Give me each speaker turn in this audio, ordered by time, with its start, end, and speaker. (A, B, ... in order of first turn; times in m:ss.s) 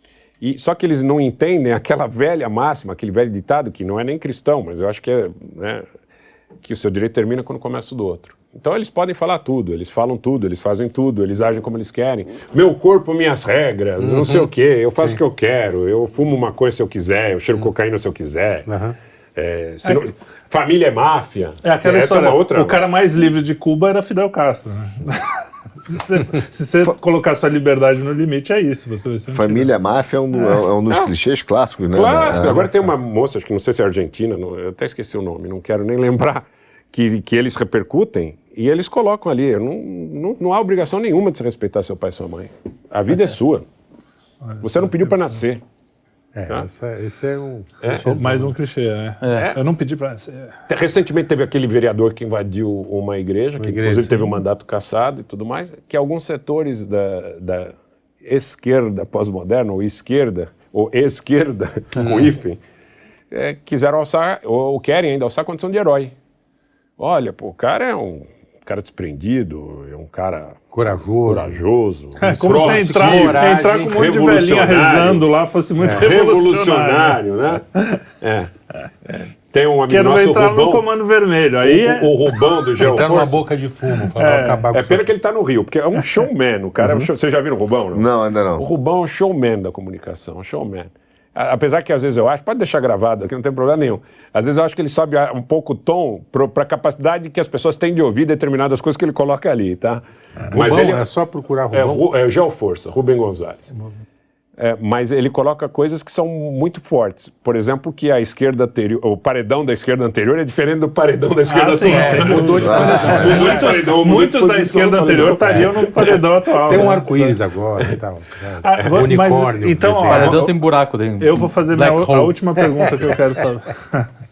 0:00.4-0:05.8 A
0:06.6-0:18.7 A
0:14.0-0:14.5 B
0:18.7-0:19.0 B
0:19.4-0:22.8 A
0:19.8-0:20.1 C
0:21.6-0:29.7 C
0:29.3-0:32.6 D
0:31.9-0:43.7 A
0:44.4-0:45.4 C
0:44.6-0:45.6 A
0:46.3-0:48.5 B
0:47.8-0:48.2 A
0:48.1-0:50.6 C
0:49.2-0:49.5 E
0:50.7-1:02.6 A
0:53.6-0:54.4 B
1:02.0-1:02.3 B
1:03.3-1:06.1 A
1:07.0-1:15.2 A
1:10.7-1:11.6 B
1:12.2-1:17.2 C
1:12.3-1:14.0 B
1:15.8-1:16.1 B
1:15.9-1:17.6 A
1:18.2-1:18.5 A
1:19.5-1:20.8 A
1:19.9-1:22.5 C
1:21.6-1:23.4 A
1:22.8-1:25.1 B
1:24.1-1:24.7 C
1:24.7-1:28.1 A
1:27.9-1:28.7 D
1:28.6-1:41.1 A
1:40.5-1:42.0 B
1:41.7-1:43.7 A
1:44.6-1:56.2 A
1:51.5-1:57.4 C
1:51.8-1:53.8 B
1:52.6-1:53.2 D
1:55.3-1:55.7 B
1:56.7-2:00.4 B
1:58.6-2:00.6 C
2:00.1-2:02.6 E
2:01.2-2:04.1 C